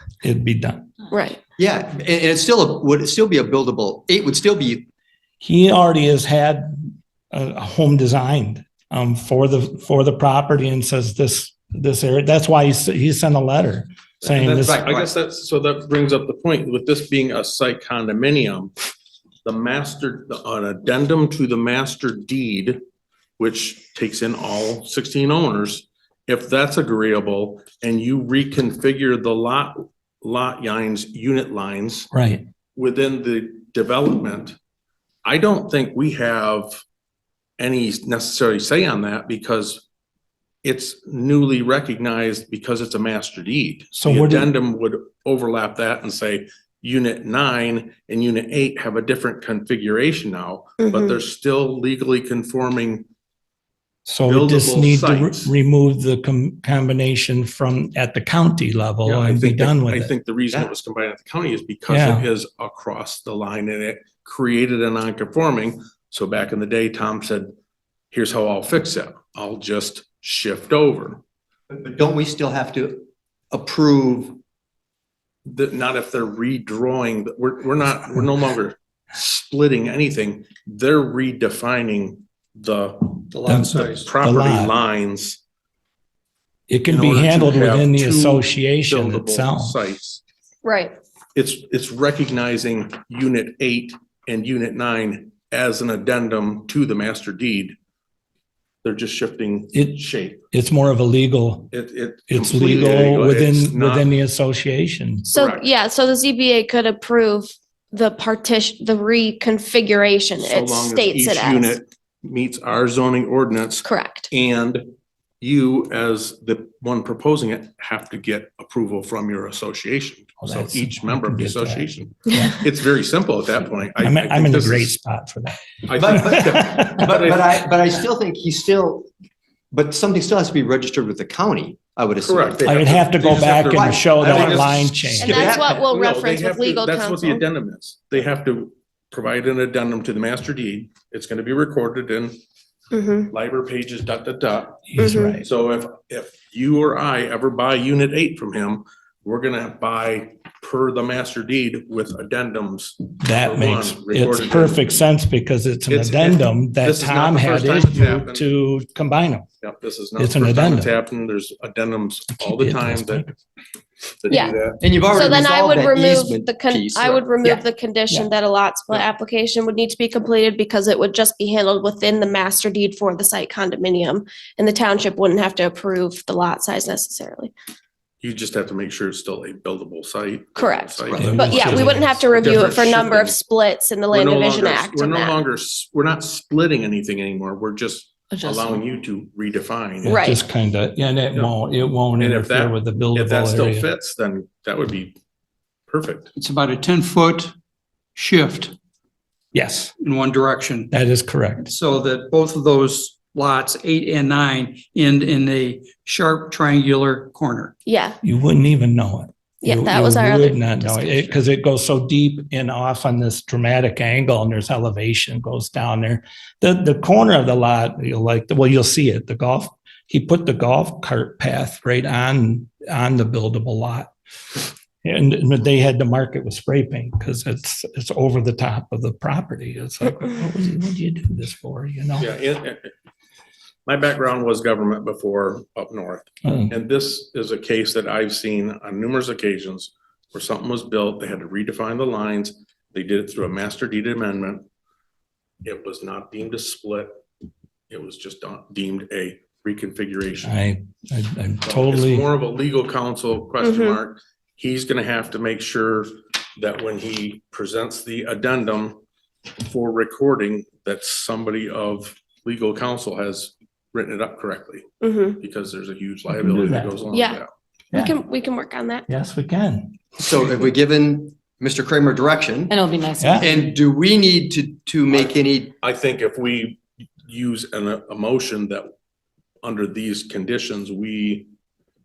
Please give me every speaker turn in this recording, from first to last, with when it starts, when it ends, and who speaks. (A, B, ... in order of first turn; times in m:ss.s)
0:00.2-0:00.9 A
0:01.1-0:01.4 B
0:01.6-0:04.8 C
0:05.4-0:14.9 A
0:14.2-0:18.7 D
0:14.5-0:15.1 C
0:19.4-0:22.8 D
0:23.4-0:32.1 D
0:32.1-0:32.4 A
0:32.8-0:34.6 D
0:35.2-0:36.8 D
0:37.6-0:39.8 D
0:40.6-0:53.0 D
0:43.9-0:44.5 A
0:50.8-0:51.2 B
0:54.0-1:00.1 A
0:54.2-0:55.5 D
0:59.0-1:07.5 D
1:01.9-1:02.3 A
1:08.1-1:11.2 D
1:11.7-1:14.4 C
1:15.4-1:25.4 D
1:23.3-1:24.1 E
1:23.5-1:24.7 A
1:26.7-1:29.8 A
1:26.9-1:30.2 D
1:30.6-1:30.9 B
1:31.3-1:37.7 D
1:38.8-1:40.4 D
1:39.7-1:41.7 A
1:41.7-1:44.1 D
1:42.3-1:45.3 A
1:45.3-1:45.6 D
1:45.3-1:51.8 B
1:50.4-1:54.8 D
1:53.8-1:54.3 B
1:55.4-2:04.9 D
2:00.4-2:02.6 A
2:04.0-2:07.0 A
2:05.9-2:07.5 D
2:06.0-2:09.1 C
2:09.7-2:12.8 C
2:12.2-2:22.4 D
2:12.6-2:15.6 A
2:13.7-2:15.8 C
2:15.2-2:17.4 B
2:22.9-2:23.3 B
2:23.3-2:24.9 D
2:24.9-2:25.4 A
2:25.0-2:25.3 B
2:25.4-2:34.8 D
2:33.2-2:39.5 A
2:35.9-2:38.4 D
2:39.6-2:43.3 D
2:40.2-2:40.9 A
2:42.4-2:43.4 A
2:44.2-2:44.8 D
2:44.3-2:44.6 B
2:44.8-2:47.2 C
2:45.1-2:57.5 B
2:47.4-2:48.3 A
2:58.2-3:03.4 D
3:00.6-3:05.4 B
3:01.1-3:02.7 A
3:04.1-3:10.2 D
3:10.0-3:13.8 A
3:10.0-3:10.4 B
3:12.2-3:15.2 D
3:15.9-3:16.3 D
3:16.4-3:17.5 E
3:18.2-3:18.7 E
3:19.5-3:19.9 A
3:20.0-3:20.9 E
3:20.9-3:21.7 A
3:21.6-3:27.7 E
3:27.8-3:28.2 B
3:28.2-3:52.3 A
3:29.6-3:31.4 B
3:52.2-3:52.9 D
3:53.8-4:04.6 D
3:56.4-3:56.7 A
4:05.6-4:07.1 D
4:07.9-4:10.5 D
4:10.4-4:12.2 A
4:11.6-4:19.0 D
4:13.6-4:14.0 B
4:19.6-4:27.5 D
4:25.0-4:25.4 B
4:26.3-4:27.0 A
4:27.1-4:27.4 B
4:27.9-4:28.2 A
4:27.9-4:29.0 B
4:29.1-4:30.0 A
4:30.2-4:32.8 C
4:33.2-4:33.4 A
4:33.4-4:35.7 C
4:35.1-4:38.9 D
4:39.6-4:41.5 D